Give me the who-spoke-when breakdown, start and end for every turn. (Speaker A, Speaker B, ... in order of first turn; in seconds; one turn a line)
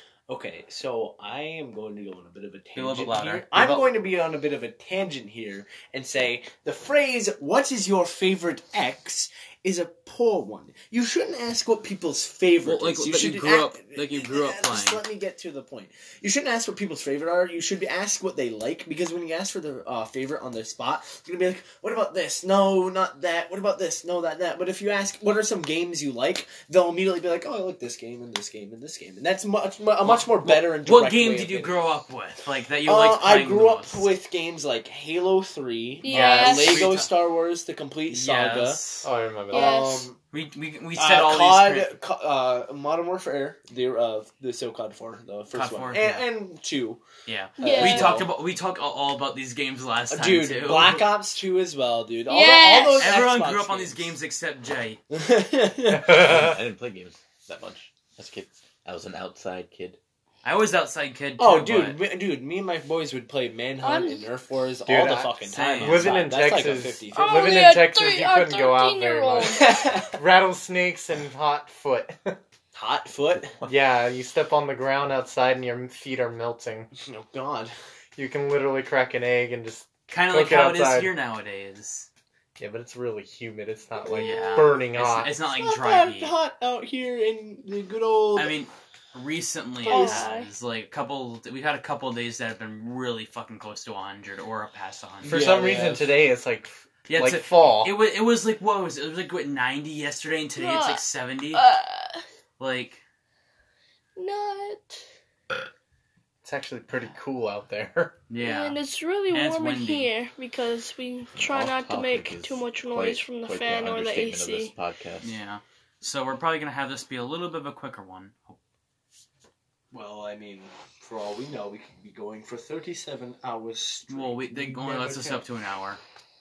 Speaker A: 0.3-31.8
Speaker B: 2.8-3.9
Speaker B: 12.6-15.0
Speaker B: 30.0-34.1
Speaker A: 32.8-38.8
Speaker C: 36.0-36.9
Speaker B: 36.1-37.1
Speaker B: 38.1-39.1
Speaker D: 39.0-39.8
Speaker C: 39.5-40.1
Speaker A: 39.5-40.2
Speaker B: 40.3-42.0
Speaker A: 41.0-47.0
Speaker B: 45.5-46.3
Speaker B: 47.3-51.1
Speaker A: 47.6-48.3
Speaker C: 47.6-48.2
Speaker A: 50.1-54.1
Speaker C: 52.3-53.2
Speaker B: 52.9-55.0
Speaker A: 55.1-56.2
Speaker D: 56.0-56.6
Speaker E: 56.0-60.0
Speaker B: 60.4-62.0
Speaker A: 61.4-67.8
Speaker C: 63.8-64.3
Speaker D: 64.8-72.4
Speaker B: 65.5-66.2
Speaker C: 67.1-69.9
Speaker A: 69.4-70.2
Speaker A: 72.7-73.6
Speaker D: 73.7-76.9
Speaker A: 77.0-77.8
Speaker D: 78.2-81.1
Speaker B: 80.1-82.1
Speaker D: 82.6-85.3
Speaker B: 84.1-86.3
Speaker C: 84.1-84.7
Speaker A: 85.3-88.5
Speaker B: 88.4-95.7
Speaker C: 89.9-90.5
Speaker A: 89.9-90.3
Speaker A: 95.2-96.1
Speaker D: 95.2-98.0
Speaker B: 97.1-101.6
Speaker C: 100.6-102.2
Speaker B: 102.6-103.0
Speaker C: 104.2-105.0
Speaker D: 106.4-108.2
Speaker B: 108.3-108.8
Speaker C: 108.4-114.7
Speaker B: 109.3-110.1
Speaker E: 111.4-115.3
Speaker B: 115.2-118.6
Speaker A: 119.9-125.5
Speaker B: 124.1-126.0